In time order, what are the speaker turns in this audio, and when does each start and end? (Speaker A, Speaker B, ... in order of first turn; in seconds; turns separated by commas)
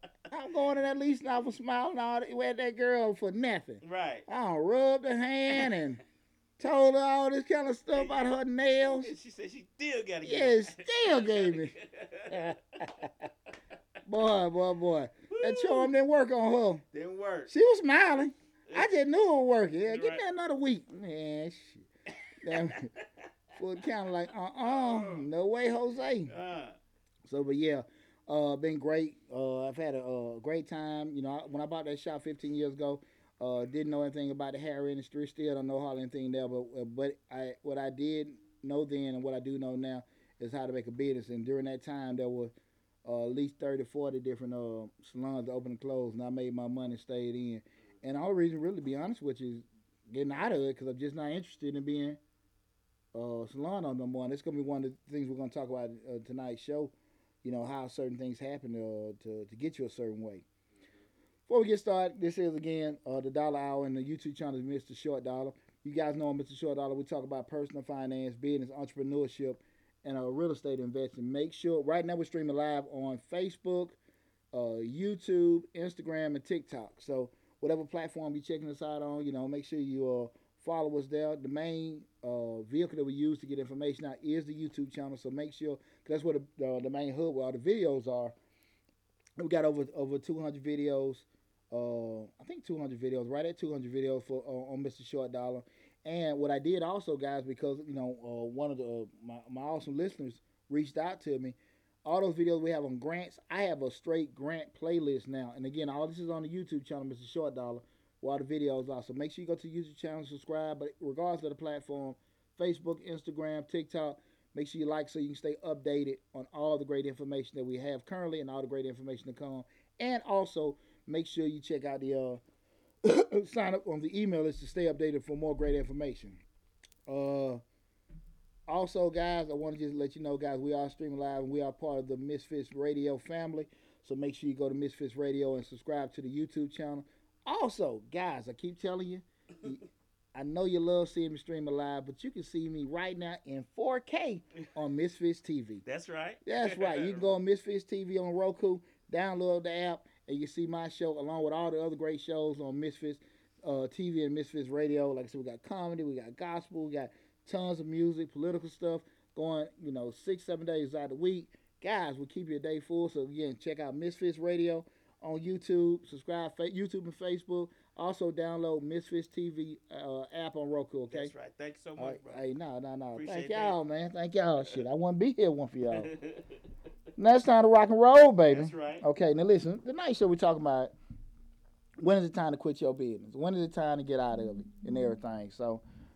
Speaker A: 0.3-6.0, Speaker B: 3.8-4.2, Speaker B: 5.5-5.8, Speaker A: 6.6-9.1, Speaker B: 7.9-8.2, Speaker B: 8.8-12.9, Speaker A: 10.2-11.8, Speaker A: 12.3-13.2, Speaker A: 14.0-16.8, Speaker B: 15.3-15.9, Speaker B: 16.9-17.5, Speaker A: 17.5-21.9, Speaker B: 19.9-20.2, Speaker A: 22.4-22.9, Speaker B: 22.4-23.2, Speaker A: 23.5-26.3, Speaker B: 24.6-25.3, Speaker B: 26.3-26.8, Speaker A: 27.2-42.5, Speaker A: 43.0-52.2, Speaker A: 53.1-56.9, Speaker A: 57.4-60.4, Speaker B: 60.8-61.0, Speaker A: 61.5-74.0, Speaker A: 74.5-88.3, Speaker A: 89.4-122.4, Speaker A: 123.0-126.4, Speaker A: 127.1-127.6, Speaker A: 128.7-139.8, Speaker A: 140.3-145.8, Speaker B: 145.8-147.3, Speaker A: 146.4-171.3, Speaker B: 171.1-172.4, Speaker A: 172.0-176.1, Speaker B: 173.1-173.8, Speaker B: 175.9-176.7, Speaker A: 177.2-180.9, Speaker B: 178.5-179.0, Speaker A: 182.0-185.8